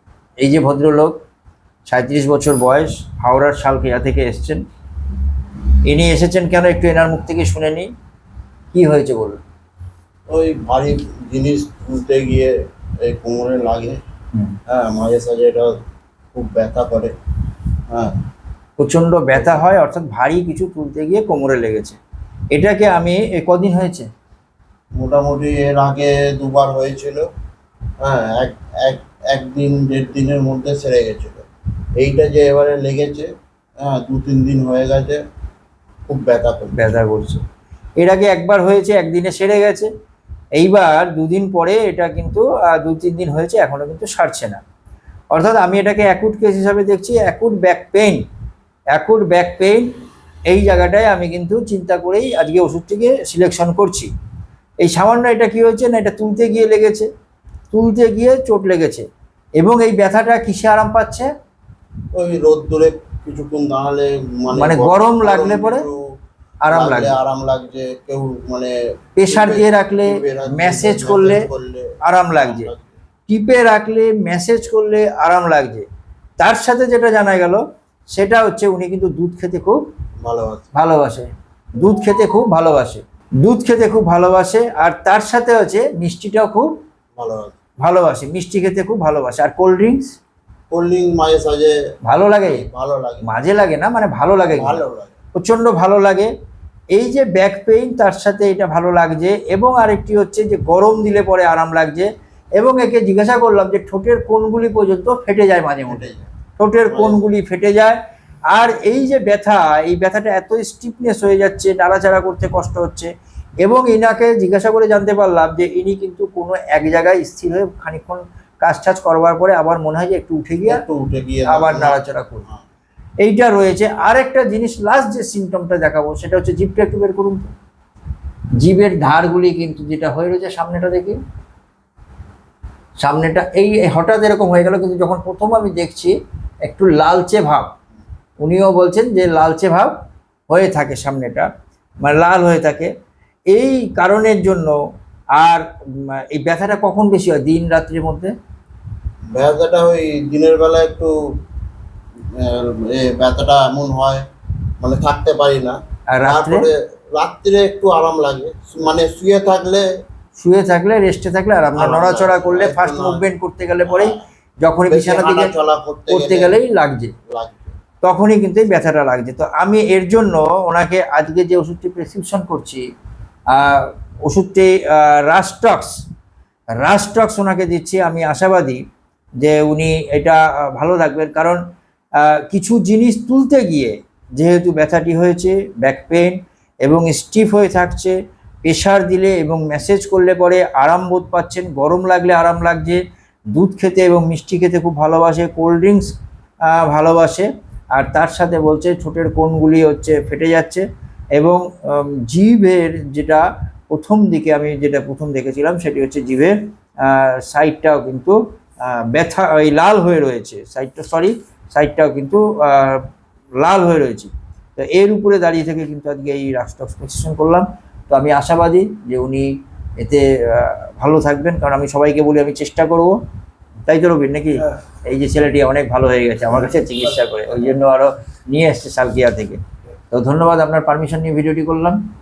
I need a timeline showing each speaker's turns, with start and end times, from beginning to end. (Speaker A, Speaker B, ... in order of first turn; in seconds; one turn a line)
Speaker A: 0.4-1.2
Speaker A: 1.9-4.6
Speaker A: 5.8-7.9
Speaker A: 8.7-9.4
Speaker B: 10.3-14.0
Speaker B: 14.7-15.8
Speaker B: 16.3-17.1
Speaker B: 17.9-18.2
Speaker A: 18.8-22.0
Speaker A: 22.5-24.1
Speaker B: 25.0-27.3
Speaker B: 28.0-31.5
Speaker B: 32.0-35.2
Speaker B: 36.1-36.9
Speaker A: 36.7-37.4
Speaker A: 38.0-39.9
Speaker A: 40.6-44.6
Speaker A: 45.3-48.2
Speaker A: 48.9-49.9
Speaker A: 50.5-54.1
Speaker A: 54.8-57.1
Speaker A: 57.7-59.0
Speaker A: 59.6-61.3
Speaker B: 62.1-66.0
Speaker A: 64.5-65.8
Speaker A: 66.6-67.2
Speaker B: 66.7-68.8
Speaker A: 69.2-71.5
Speaker B: 69.3-72.9
Speaker A: 72.0-72.7
Speaker A: 73.3-75.9
Speaker A: 76.4-79.8
Speaker B: 80.2-80.7
Speaker A: 80.7-86.7
Speaker B: 87.2-87.6
Speaker A: 87.8-90.2
Speaker B: 90.7-91.8
Speaker A: 92.0-92.6
Speaker B: 92.5-93.3
Speaker A: 93.2-94.8
Speaker B: 94.5-95.2
Speaker A: 95.3-96.3
Speaker A: 96.9-106.1
Speaker B: 105.9-106.3
Speaker A: 106.6-108.0
Speaker B: 106.9-107.3
Speaker A: 108.5-113.1
Speaker A: 113.6-120.8
Speaker B: 120.7-122.6
Speaker A: 121.5-122.5
Speaker A: 123.2-127.5
Speaker A: 128.6-131.2
Speaker A: 133.0-136.1
Speaker A: 136.6-137.7
Speaker A: 138.4-139.9
Speaker A: 140.5-141.5
Speaker A: 142.0-142.9
Speaker A: 143.5-144.8
Speaker A: 145.4-148.3
Speaker B: 149.3-151.2
Speaker B: 152.3-154.2
Speaker B: 154.8-159.9
Speaker A: 156.1-156.7
Speaker A: 160.4-165.5
Speaker B: 161.8-163.2
Speaker B: 163.8-164.2
Speaker B: 164.9-166.6
Speaker A: 166.1-167.1
Speaker B: 167.3-167.7
Speaker A: 168.0-172.8
Speaker A: 173.5-176.0
Speaker A: 176.8-178.8
Speaker A: 179.4-181.6
Speaker A: 182.2-193.0
Speaker A: 193.5-196.1
Speaker A: 196.7-200.8
Speaker A: 201.4-213.1
Speaker A: 213.6-223.2
Speaker A: 223.9-229.6
Speaker A: 230.1-232.0